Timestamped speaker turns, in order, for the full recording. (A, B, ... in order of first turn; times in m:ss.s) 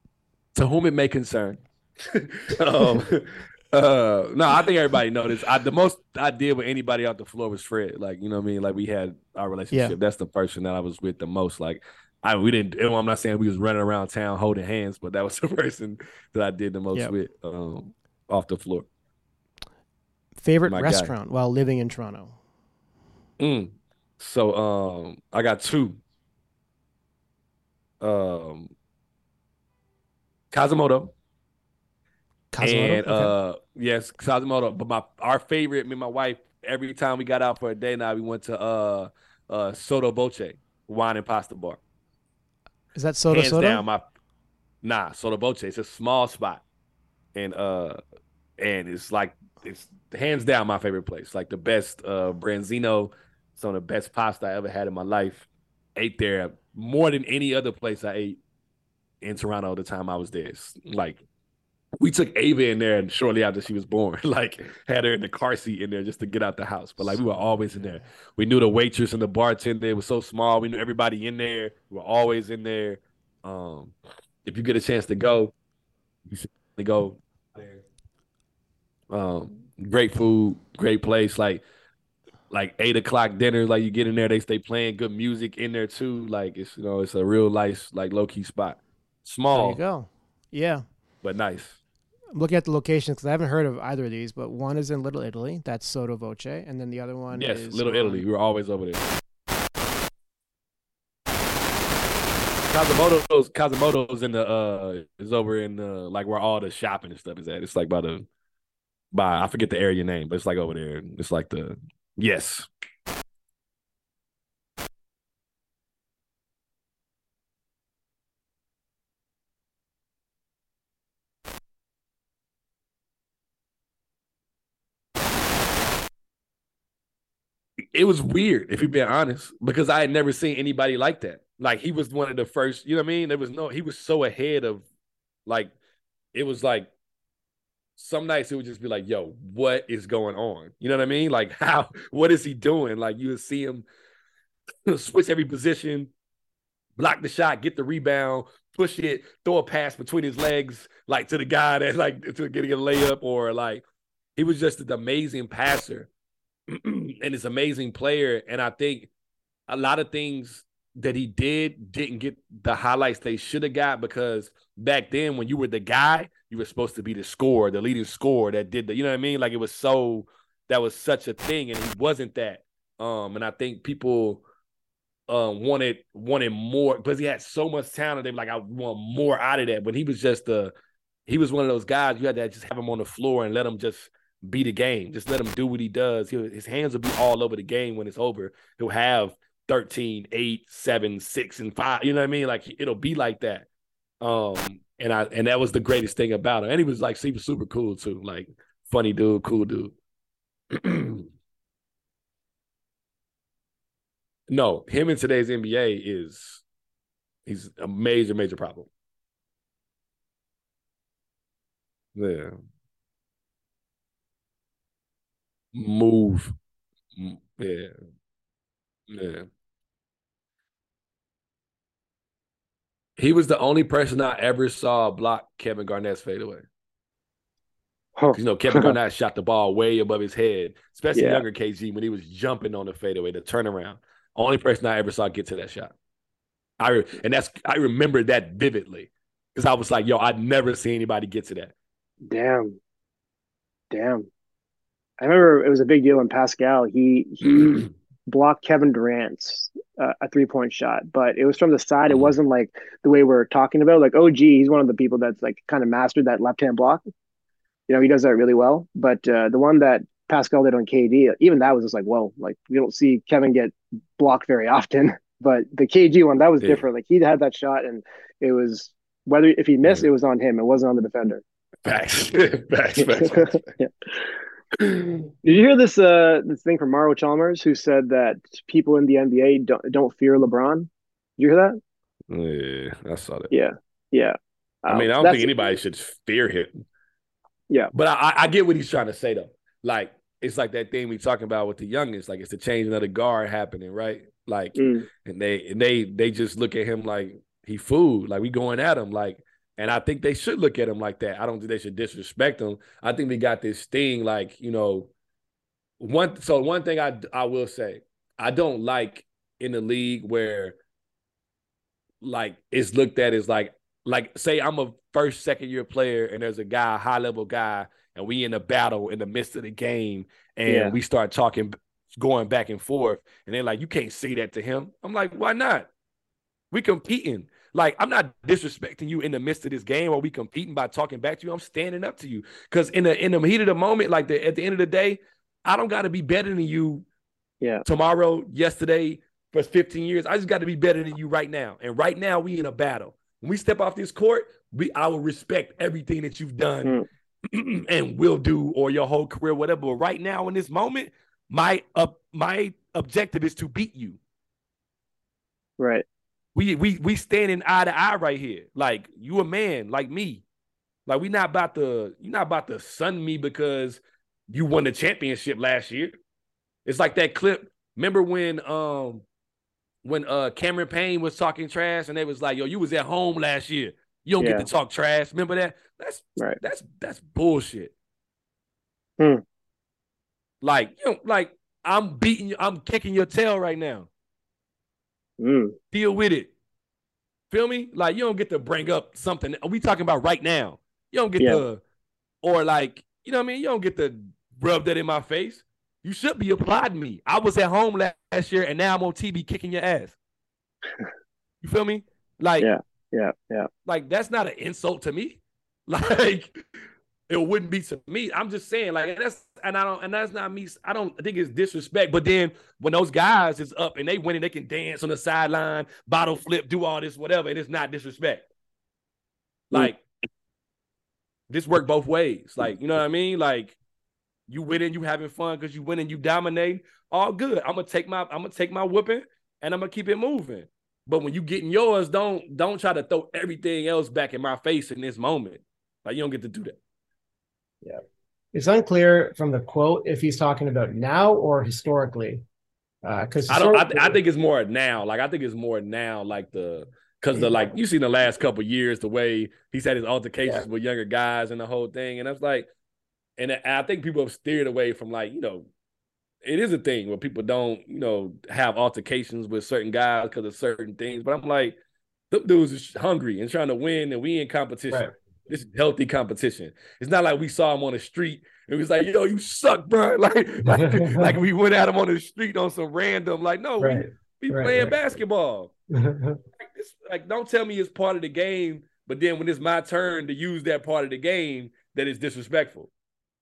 0:00.5-0:18.9 A
0:09.7-0:10.0 B
0:20.4-0:22.4 B
0:20.7-0:21.1 A
0:23.4-0:26.0 A
0:28.0-0:28.7 A
0:30.5-0:31.1 A
0:32.5-0:33.3 B
0:32.6-0:41.8 A
0:42.9-0:43.8 B
0:43.3-0:44.0 A
0:44.8-0:46.6 A
0:47.3-0:48.0 A
0:48.6-0:58.4 A
0:59.2-1:01.2 A
1:02.0-1:15.5 A
1:16.3-1:17.8 A
1:19.1-1:21.6 A
1:22.5-1:29.8 A
1:29.5-1:30.8 B
1:31.2-1:31.8 A
1:32.3-1:38.2 B
1:37.3-1:39.0 A
1:42.7-1:48.2 A
1:49.1-1:52.7 A
2:07.9-2:14.8 A
2:15.4-2:15.7 A
2:16.3-2:16.9 A
2:18.0-2:23.8 A
2:24.8-2:26.1 A
2:27.0-2:33.8 A
2:34.4-2:36.1 A
2:36.7-2:39.1 A
2:39.7-2:54.4 A
2:55.3-3:00.7 A
3:01.3-3:13.6 A
3:14.2-3:19.9 A
3:20.7-3:21.3 A
3:24.5-3:26.6 A
3:27.4-3:28.9 A
3:32.2-3:32.5 A
3:35.7-3:36.5 A
3:37.2-3:37.9 A
3:39.1-3:39.5 A
3:43.2-3:46.6 A
3:48.2-3:49.0 C
3:48.3-3:55.9 A
3:51.1-3:51.4 C
3:56.8-4:01.7 A
4:02.3-4:02.8 C
4:03.9-4:04.3 C
4:05.2-4:17.0 C
4:17.9-4:31.4 C
4:31.8-4:33.7 A
4:33.0-4:33.9 C
4:34.8-4:35.1 A
4:35.4-4:41.8 C
4:42.3-4:43.5 A
4:43.5-4:45.7 C
4:44.9-4:46.8 A
4:47.9-5:05.1 A
4:54.8-4:55.1 C
5:06.0-5:10.8 A
5:12.2-5:25.9 A
5:20.7-5:20.9 C
5:26.7-5:37.0 A
5:37.8-5:46.9 A
5:47.5-5:54.2 A
5:55.8-5:56.0 C
5:56.5-6:00.4 A
6:01.1-6:06.2 A
6:06.8-6:09.2 A
6:10.0-6:17.9 A
6:14.4-6:14.7 C
6:20.6-6:24.1 A
6:25.4-6:25.8 C
6:25.9-6:26.5 A
6:27.5-6:31.8 A
6:31.4-6:31.6 C
6:32.4-6:40.2 A
6:41.6-6:42.7 A
6:42.6-6:43.7 C
6:43.8-6:46.6 A
6:47.3-6:58.4 A
6:59.7-7:00.0 A
7:01.5-7:03.8 A
7:04.5-7:16.8 A
7:17.8-7:22.4 C
7:23.0-7:24.2 C
7:23.5-7:32.7 A
7:27.3-7:27.7 C
7:33.4-7:35.7 A
7:36.4-7:41.8 A
7:42.3-7:55.7 A
7:50.8-7:51.3 C
7:53.8-7:54.9 C
7:55.9-7:56.4 C
7:56.6-8:02.9 A